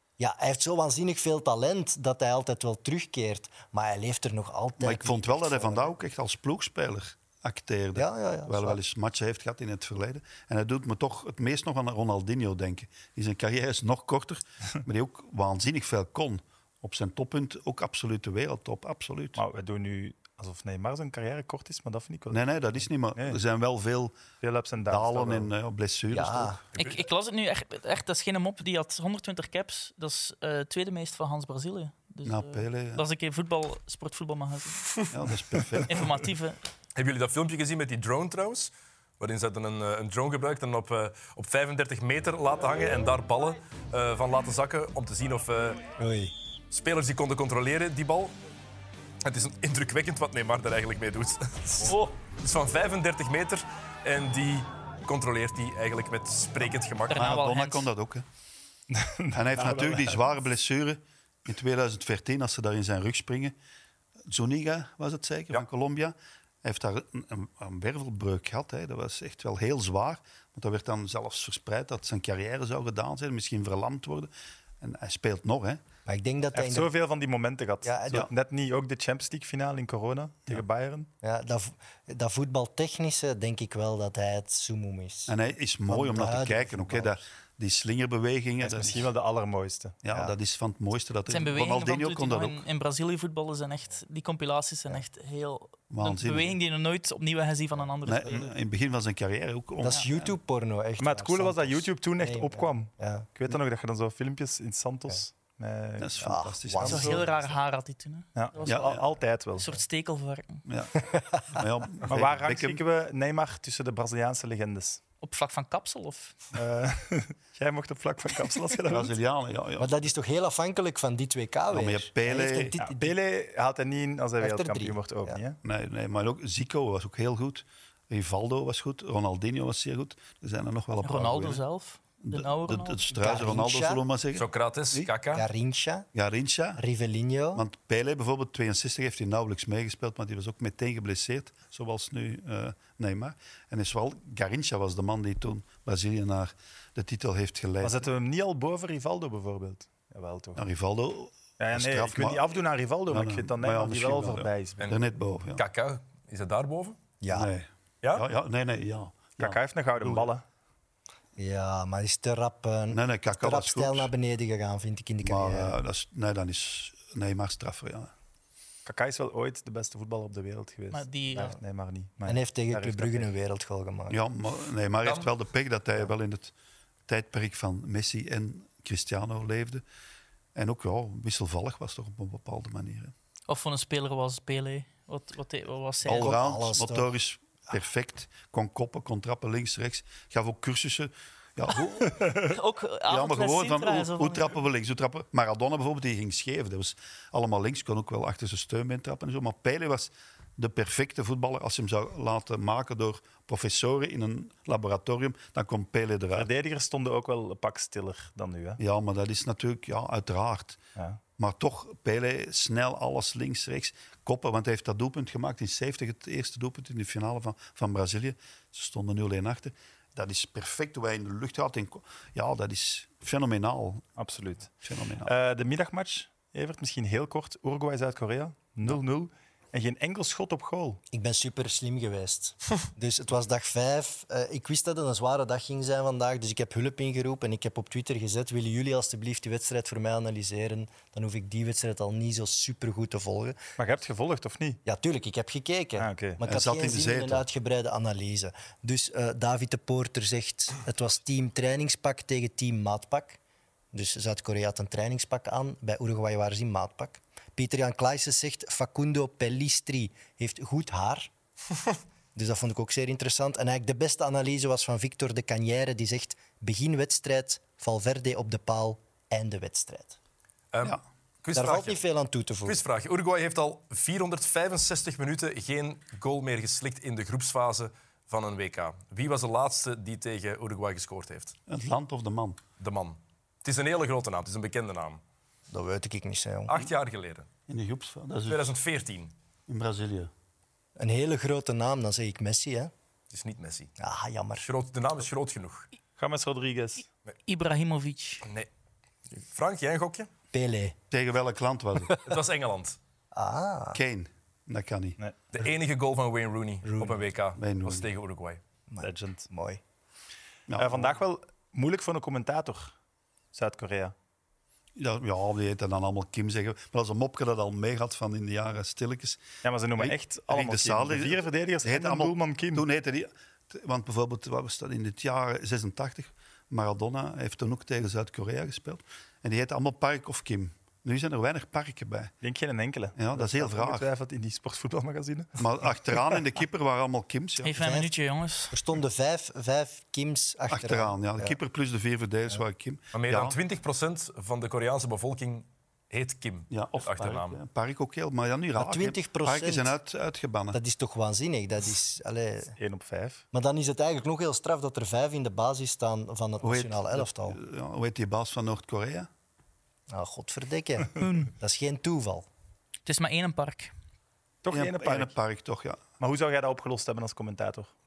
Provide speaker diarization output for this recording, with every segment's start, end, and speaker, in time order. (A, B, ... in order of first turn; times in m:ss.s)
0:00.2-0:05.9 A
0:04.8-0:19.4 B
0:08.0-0:08.8 A
0:19.4-0:23.4 C
0:22.3-0:24.2 B
0:24.4-0:25.5 C
0:24.9-0:26.6 B
0:26.1-0:26.6 A
0:26.8-0:27.0 D
0:26.8-0:34.9 E
0:32.2-0:33.0 B
0:35.1-0:36.1 B
0:35.8-0:36.6 E
0:37.0-0:45.8 D
0:46.0-0:46.3 A
0:46.7-0:48.3 D
0:49.2-0:57.2 D
0:51.8-0:52.1 E
0:57.1-0:57.9 E
0:57.1-0:58.3 B
0:58.9-1:00.2 C
0:59.3-1:03.6 B
1:04.3-1:15.8 B
1:16.1-1:16.9 A
1:16.5-1:21.1 C
1:17.8-1:18.3 A
1:21.2-1:25.4 A
1:25.3-1:29.1 B
1:25.9-1:27.2 A
1:28.6-1:30.0 C
1:30.0-1:32.6 B
1:31.3-1:38.5 E
1:35.9-1:36.6 B
1:38.0-1:40.4 B
1:39.8-1:43.3 A
1:41.0-1:46.2 C
1:46.0-1:47.4 B
1:46.2-1:47.3 A
1:46.8-1:49.0 E
1:48.4-1:49.7 C
1:48.6-1:49.0 B
1:49.6-1:50.6 E
1:50.7-1:51.0 B
1:51.0-1:51.6 A
1:51.5-1:52.8 B
1:52.1-1:55.0 C
1:55.2-1:56.4 E
1:56.5-1:59.1 C
1:58.9-2:00.0 B
1:59.8-2:03.1 A
2:01.7-2:02.7 B
2:02.8-2:05.6 C
2:04.4-2:05.4 A
2:05.6-2:11.6 B
2:11.0-2:13.0 E
2:12.3-2:15.1 B
2:13.1-2:14.0 A
2:14.4-2:15.5 D
2:15.3-2:16.1 A
2:16.1-2:16.8 B
2:16.8-2:17.6 A
2:17.5-2:28.0 B
2:27.8-2:30.6 C
2:30.6-2:32.6 B
2:31.6-2:34.9 C
2:33.1-2:35.6 B
2:34.8-2:37.0 D
2:37.2-2:37.5 A
2:37.3-2:40.3 B
2:39.4-2:40.4 C
2:41.4-2:45.8 A
2:42.9-2:44.1 B
2:45.2-2:48.1 B
2:48.8-2:53.3 C
2:50.9-2:51.6 E
2:52.3-2:54.2 A
2:54.1-2:56.5 B
2:57.1-2:59.8 B
3:00.6-3:03.1 B
3:03.5-3:06.4 E
3:06.0-3:12.4 B
3:06.1-3:07.1 A
3:12.3-3:14.6 E
3:13.1-3:26.5 B
3:26.3-3:28.8 C
3:28.8-3:30.8 B
3:31.0-3:31.2 C
3:31.4-3:44.1 B
3:44.2-3:51.0 C
3:44.8-3:45.3 B
3:51.1-4:03.6 A
4:03.8-4:04.8 C
4:04.8-4:13.4 A
4:06.0-4:06.4 C
4:06.4-4:07.5 B
4:13.9-4:21.3 A
4:22.4-4:30.2 A
4:30.7-4:32.0 D
4:31.5-4:32.8 A
4:32.6-4:41.6 D
4:41.7-4:42.6 B
4:42.8-4:45.2 D
4:45.7-4:46.9 A
4:46.7-4:47.5 D
4:47.7-4:48.7 B
4:48.5-4:49.3 D
4:49.7-4:50.3 B
4:51.0-4:52.9 A
4:53.3-4:53.9 D
4:54.0-4:54.7 A
4:54.6-4:55.9 D
4:56.2-4:57.1 C
4:57.5-4:58.4 E
4:58.4-4:58.7 D
4:59.4-5:00.3 D
5:00.5-5:01.0 A
5:01.1-5:02.2 B
5:02.2-5:03.0 D
5:03.3-5:04.0 A
5:03.9-5:05.2 B
5:05.5-5:08.6 D
5:06.8-5:07.2 A
5:07.6-5:08.1 B
5:08.9-5:09.8 A
5:09.0-5:09.5 C
5:10.7-5:11.2 B
5:10.8-5:13.0 C
5:13.5-5:14.1 C
5:15.0-5:19.4 B
5:19.6-5:22.9 C
5:20.0-5:32.3 B
5:32.4-5:35.6 C
5:33.2-5:34.1 B
5:35.6-5:37.8 B
5:37.6-5:38.8 E
5:37.8-5:38.1 A
5:38.7-5:41.6 A
5:40.7-5:43.6 B
5:43.1-5:47.6 D
5:46.7-5:50.8 B
5:48.8-5:49.9 A
5:50.7-5:52.7 A
5:52.8-5:53.4 C
5:53.5-5:57.6 A
5:56.6-5:59.3 B
6:00.1-6:02.5 A
6:01.2-6:01.5 E
6:03.1-6:03.9 E
6:04.6-6:05.3 C
6:04.7-6:06.0 B
6:06.2-6:07.9 C